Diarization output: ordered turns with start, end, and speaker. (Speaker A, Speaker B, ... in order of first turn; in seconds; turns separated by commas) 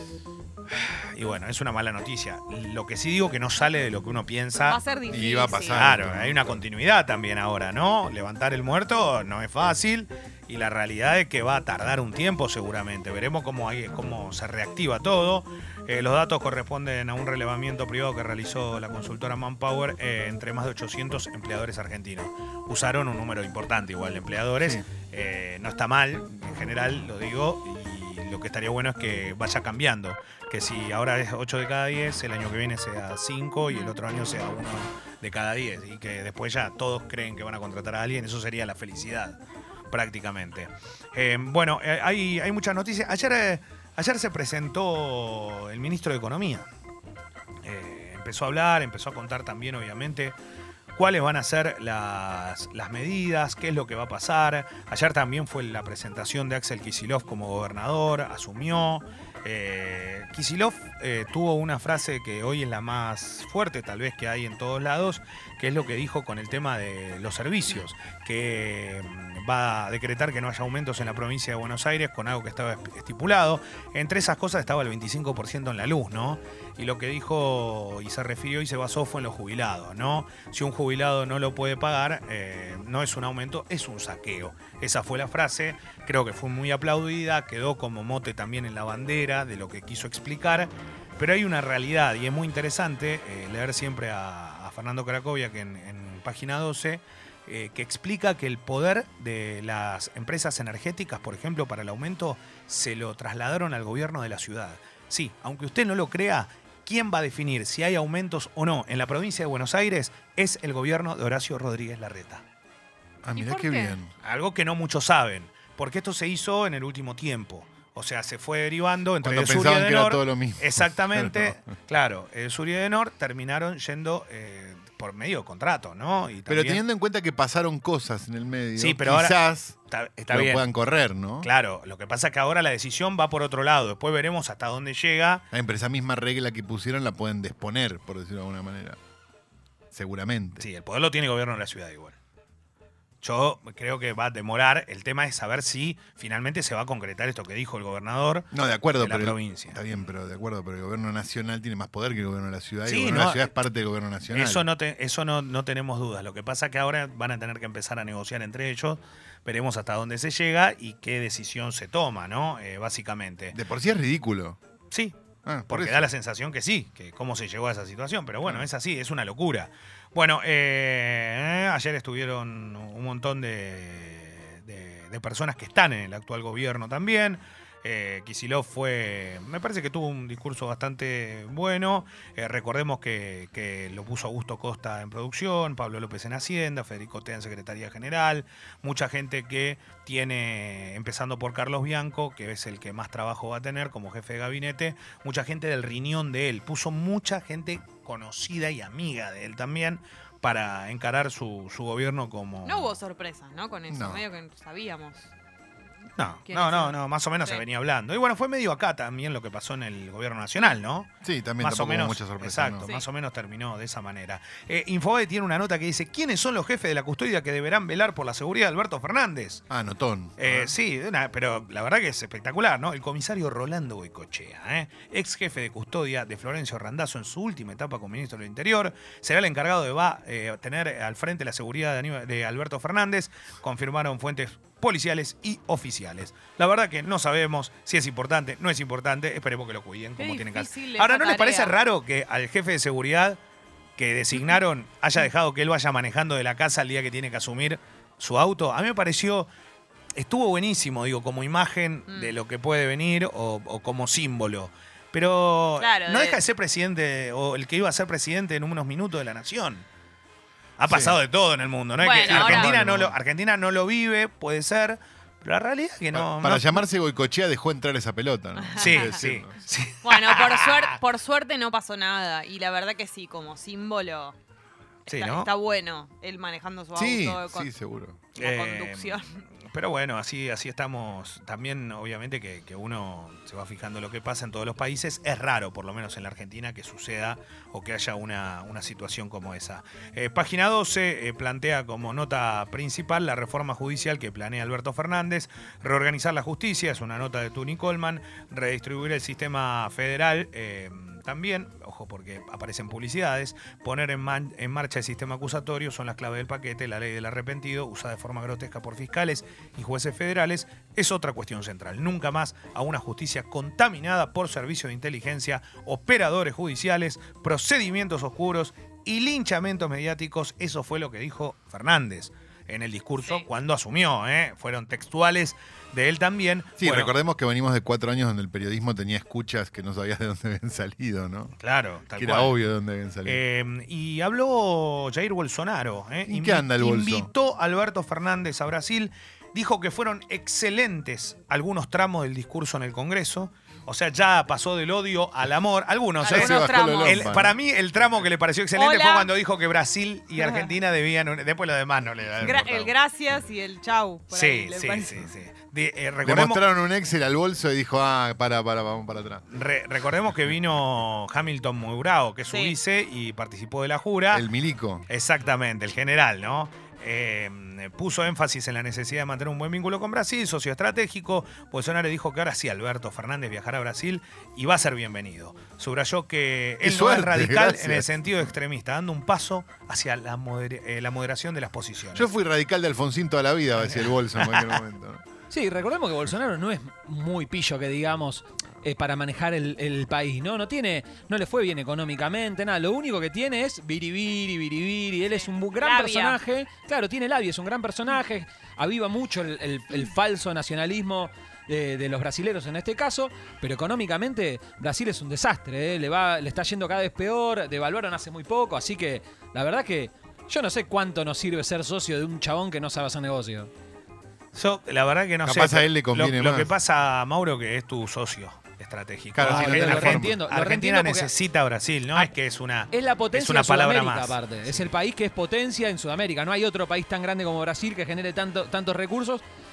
Speaker A: 0.8-4.8, Speaker B: 4.6-5.8, Speaker C: 5.1-6.6, Speaker A: 5.7-39.4, Speaker A: 39.9-46.6, Speaker A: 47.6-50.3, Speaker A: 50.9-112.4, Speaker C: 113.2-114.1, Speaker B: 113.3-114.0, Speaker A: 114.2-126.8, Speaker C: 119.2-121.6, Speaker C: 126.5-129.8, Speaker A: 128.8-130.6, Speaker C: 130.3-131.5, Speaker A: 131.4-135.4, Speaker C: 135.5-139.0, Speaker C: 139.9-140.7, Speaker A: 140.6-142.2, Speaker A: 143.2-149.8, Speaker C: 148.5-154.7, Speaker A: 152.8-153.5, Speaker A: 154.3-163.6, Speaker C: 163.5-164.6, Speaker A: 164.9-165.2, Speaker C: 165.4-166.1, Speaker A: 165.7-202.9, Speaker B: 202.6-205.3, Speaker C: 203.9-204.2, Speaker A: 206.2-219.6, Speaker B: 206.5-207.6, Speaker C: 211.2-212.9, Speaker C: 219.7-220.7, Speaker A: 220.4-243.4, Speaker B: 240.2-241.7, Speaker A: 244.0-249.5, Speaker A: 250.2-259.8, Speaker B: 252.1-252.3, Speaker B: 255.8-256.4, Speaker A: 260.8-266.8, Speaker C: 260.9-261.2, Speaker B: 262.0-262.7, Speaker C: 262.2-263.1, Speaker C: 266.1-269.6, Speaker B: 268.6-269.1, Speaker A: 268.8-270.9, Speaker B: 270.0-274.3, Speaker B: 275.1-277.7, Speaker A: 275.1-275.5, Speaker C: 276.9-278.2, Speaker B: 278.3-279.4, Speaker A: 278.4-327.1, Speaker C: 326.8-331.6, Speaker A: 331.6-332.6, Speaker C: 332.1-333.4, Speaker A: 333.2-352.9, Speaker C: 336.2-337.3, Speaker B: 346.2-347.3, Speaker C: 346.2-347.5, Speaker B: 348.7-349.3, Speaker B: 350.4-350.7, Speaker B: 352.4-355.2, Speaker A: 354.3-356.6, Speaker C: 356.2-359.4, Speaker A: 359.5-364.4, Speaker C: 364.3-365.1, Speaker A: 365.1-382.3, Speaker C: 376.8-378.5, Speaker C: 382.1-385.2, Speaker A: 383.9-384.8, Speaker D: 385.5-413.7, Speaker B: 395.3-396.4, Speaker A: 414.5-424.4, Speaker C: 415.4-416.7, Speaker C: 419.3-420.4, Speaker D: 419.4-421.3, Speaker D: 422.9-429.4